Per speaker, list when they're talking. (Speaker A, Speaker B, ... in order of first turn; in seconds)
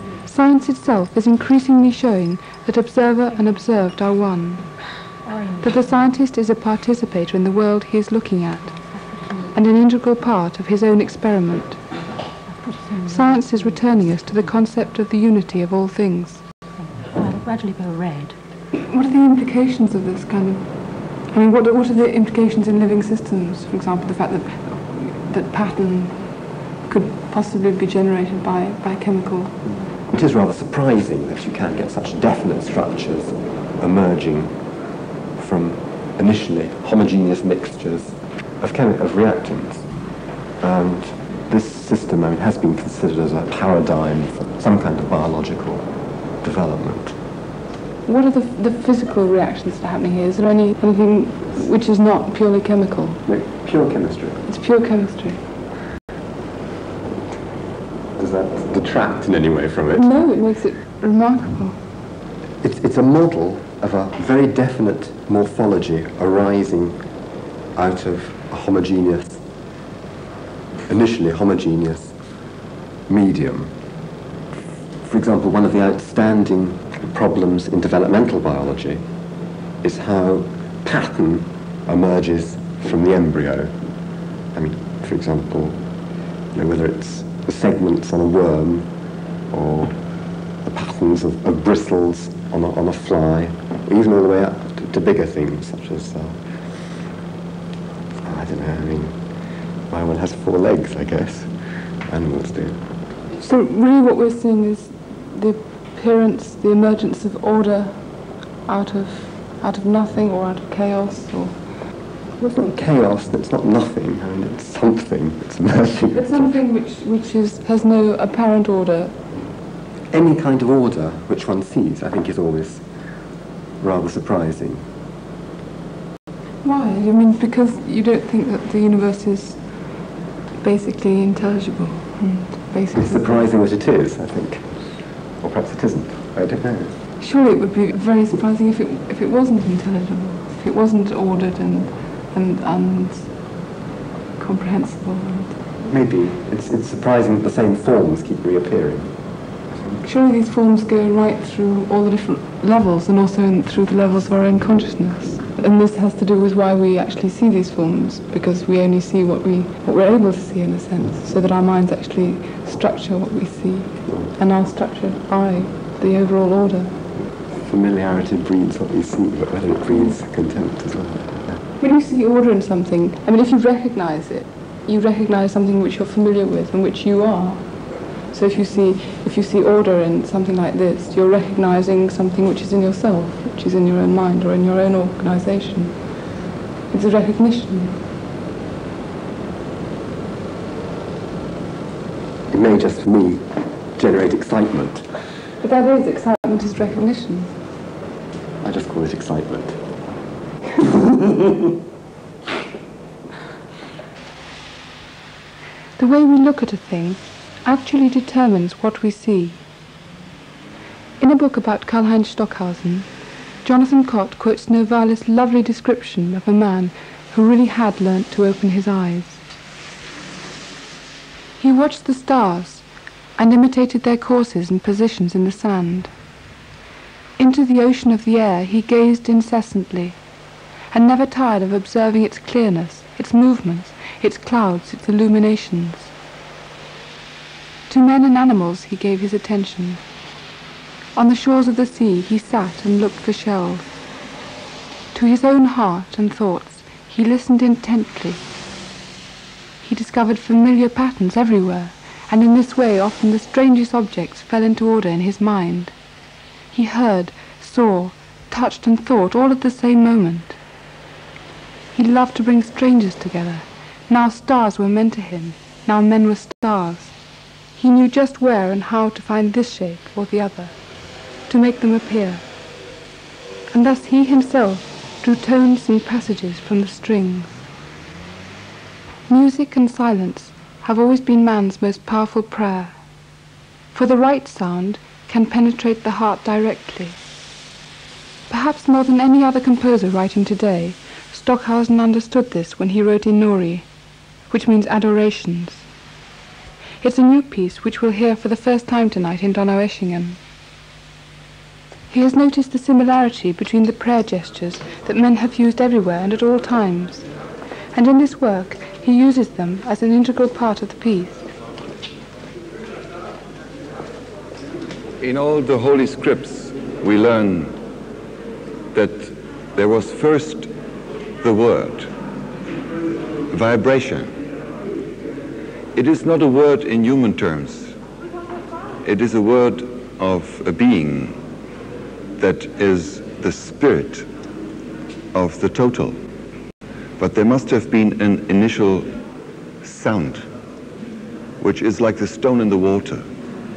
Speaker A: 0.2-4.7, 5.6-8.7, 9.5-11.8, 13.1-16.4, 18.7-20.7, 21.3-26.3, 26.8-29.6, 48.0-53.2, 54.5-55.4, 59.9-61.8, 103.4-108.0, 108.6-111.6, 116.1-119.2, 126.6-129.6, 130.6-133.5, 137.2-143.3, 144.4-145.6, 150.0-167.0, 171.8-177.7, 178.3-186.0, 186.9-188.0, 195.6-197.6, 206.0-209.6, 211.2-213.1, 213.6-219.4, 221.6-222.8, 223.4-226.1, 227.4-230.2, 230.9-236.1, 237.9-240.0, 241.1-243.8, 245.1-248.4, 249.8-255.9, 256.7-260.6, 261.9-267.1, 267.7-270.7, 271.5-272.4, 273.7-277.6, 279.3-282.9, 283.9-287.2, 288.5-293.9, 294.5-295.9, 297.0-300.4, 302.1-307.3, 307.9-311.5
Speaker B: 5.2-6.0, 9.1-9.5, 12.5-13.8, 16.8-18.4
Speaker C: 30.1-34.6, 35.3-39.9, 40.6-45.9, 46.4-47.2, 53.2-54.5, 58.1-60.1, 62.6-67.1, 67.7-69.4, 70.9-72.2, 73.1-73.8, 75.0-79.0, 79.8-83.8, 84.5-85.8, 86.5-88.9, 89.5-90.0, 90.6-96.9, 98.2-99.2, 99.9-102.8, 112.4-116.6, 120.1-122.8, 123.8-124.9, 132.9-137.0, 145.8-149.1, 167.5-171.6, 192.5-195.1, 198.6-199.8, 201.2-201.4
Speaker D: 315.2-317.8, 318.9-320.7, 321.4-322.1, 323.5-324.4, 325.9-327.9, 329.0-331.4, 332.4-334.3, 335.3-336.2, 337.2-339.2, 339.8-340.4, 341.6-343.2